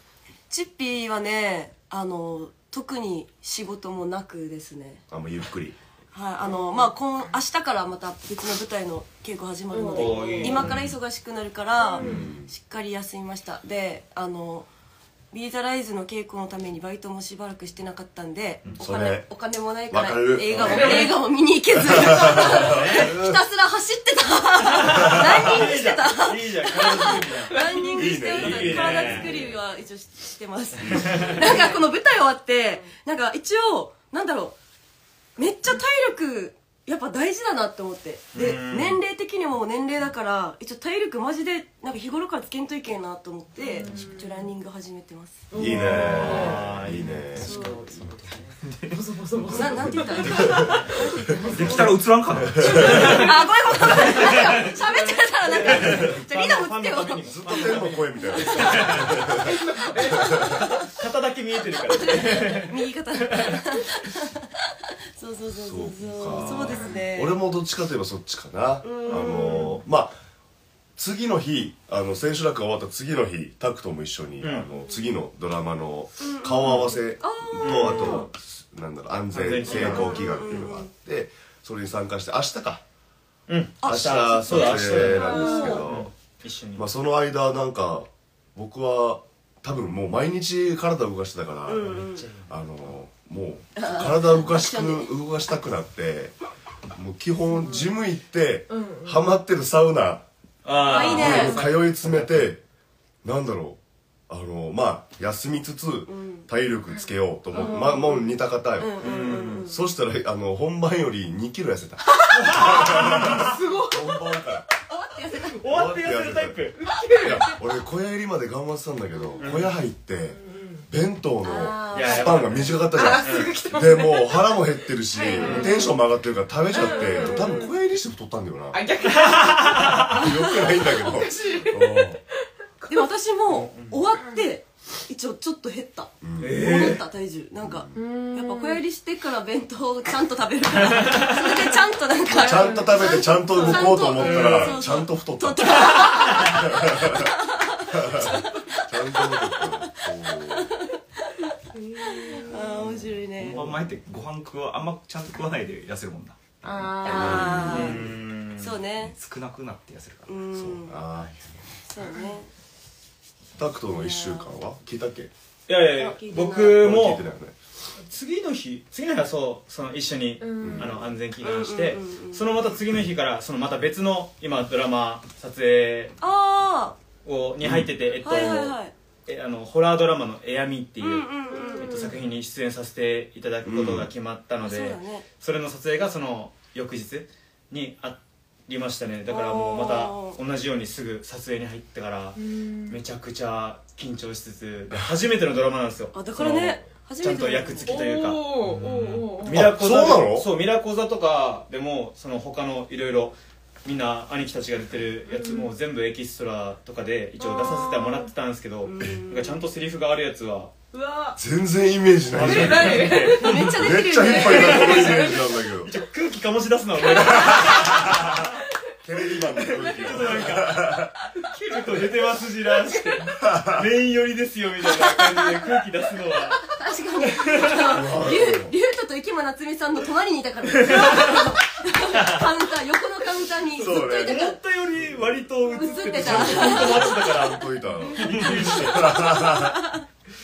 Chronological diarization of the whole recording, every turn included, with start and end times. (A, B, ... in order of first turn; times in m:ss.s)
0:00.5-0:05.0 A
0:05.1-0:05.8 B
0:06.1-0:14.7 A
0:09.7-0:10.6 C
0:09.9-0:10.8 D
0:11.8-0:12.2 C
0:12.0-0:12.5 B
0:15.3-0:34.6 A
0:18.8-0:19.3 B
0:19.9-0:21.1 B
0:20.6-0:21.1 C
0:21.8-0:23.4 B
0:22.4-0:23.1 D
0:24.6-0:29.5 D
0:25.0-0:25.5 B
0:27.5-0:28.2 C
0:27.8-0:29.4 B
0:30.8-0:31.3 B
0:30.9-0:31.5 D
0:31.4-0:31.8 C
0:35.4-0:46.6 A
0:38.3-0:39.0 D
0:43.7-0:44.4 C
0:43.8-0:44.1 D
0:45.5-0:46.6 C
0:45.5-0:47.7 B
0:45.9-0:48.6 D
0:47.3-0:48.4 A
0:48.6-0:49.5 E
0:48.9-0:51.9 C
0:49.4-0:52.0 A
0:50.2-0:50.9 D
0:51.4-0:53.3 E
0:52.4-0:53.2 B
0:52.7-0:59.1 D
0:52.7-0:59.1 A
0:55.6-0:56.2 B
0:57.3-1:00.6 B
0:59.4-1:00.5 C
1:00.4-1:03.6 D
1:01.9-1:04.5 A
1:05.2-1:07.4 A
1:05.5-1:10.2 B
1:06.5-1:07.0 C
1:08.8-1:09.8 A
1:11.0-1:22.8 B
1:14.4-1:14.7 D
1:16.2-1:18.3 A
1:16.6-1:17.0 D
1:17.6-1:18.3 D
1:19.3-1:20.2 D
1:19.6-1:20.9 A
1:23.5-1:26.9 D
1:23.8-1:26.1 B
1:23.8-1:25.8 A
1:25.1-1:25.8 C
1:26.7-1:36.3 B
1:31.7-1:32.2 A
1:31.9-1:32.7 D
1:33.8-1:35.1 A
1:36.9-1:40.2 B
1:38.7-1:39.3 C
1:40.6-1:42.4 D
1:40.8-1:41.6 A
1:40.8-1:42.6 B
1:43.2-1:54.7 B
1:46.1-1:46.4 A
1:47.5-1:48.2 A
1:47.6-1:47.9 C
1:48.8-1:49.8 A
1:49.0-1:49.7 D
1:52.3-1:54.3 C
1:52.4-1:53.4 D
1:54.9-1:55.6 A
1:55.5-1:56.9 D
1:55.6-1:56.6 B
1:56.8-1:57.6 C
1:57.1-2:08.8 B
1:59.4-1:59.7 D
2:00.4-2:00.8 C
2:01.4-2:02.7 A
2:01.9-2:03.5 D
2:02.9-2:04.6 C
2:05.1-2:05.9 C
2:05.3-2:05.8 A
2:05.4-2:05.8 D
2:06.7-2:07.7 C
2:06.7-2:07.6 A
2:08.7-2:12.2 C
2:09.0-2:10.2 D
2:10.0-2:12.2 B
2:12.9-2:30.9 A
2:13.5-2:14.0 D
2:16.2-2:16.8 B
2:16.4-2:17.0 D
2:17.6-2:18.0 B
2:17.9-2:18.8 C
2:20.8-2:21.7 D
2:22.3-2:27.3 B
2:22.3-2:24.0 C
2:24.2-2:24.8 D
2:26.0-2:26.4 D
2:27.9-2:30.7 B
2:31.7-2:32.6 C
2:32.0-2:33.6 A
2:33.4-2:37.6 E
2:36.6-2:37.6 C
2:37.0-2:39.1 A
2:37.0-2:38.1 B
2:37.6-2:38.8 D
2:38.9-2:40.5 E
2:40.3-2:41.0 A
2:40.6-2:41.3 B
2:41.8-2:42.5 A
2:43.6-2:45.3 B
2:43.9-2:44.5 A
2:45.7-2:47.2 D
2:45.9-2:46.9 A
2:46.6-2:47.5 B
2:48.1-2:56.2 D
2:50.4-2:50.9 C
2:50.6-2:51.0 B
2:51.4-2:52.5 A
2:56.2-2:57.0 A
2:57.2-3:12.4 D
2:57.6-2:57.9 B
2:58.2-2:58.9 A
3:01.0-3:02.1 A
3:01.5-3:02.1 C
3:03.6-3:04.1 B
3:04.6-3:05.2 A
3:09.3-3:10.4 A
3:12.4-3:13.0 C
3:12.9-3:30.7 D
3:16.1-3:18.0 A
3:17.8-3:19.7 C
3:19.5-3:20.5 B
3:25.3-3:25.7 C
3:27.4-3:28.3 C
3:28.8-3:29.6 A
3:30.9-3:31.4 C
3:31.4-3:35.9 B
3:32.3-3:38.6 D
3:32.4-3:33.6 C
3:32.9-3:35.2 A
3:34.3-3:35.4 C
3:37.1-3:38.4 B
3:39.0-3:41.1 B
3:39.6-3:40.9 D
3:39.7-3:40.1 C
3:41.4-3:46.6 D
3:43.3-3:43.9 B
3:46.6-3:54.6 A
3:47.3-3:48.0 D
3:47.9-3:48.7 B
3:50.7-3:51.5 D
3:52.1-3:52.5 D
3:53.7-3:54.4 B
3:53.8-3:59.2 D
3:55.0-3:55.4 B
3:55.7-3:57.4 A
3:56.1-3:59.8 B
3:59.1-4:00.0 A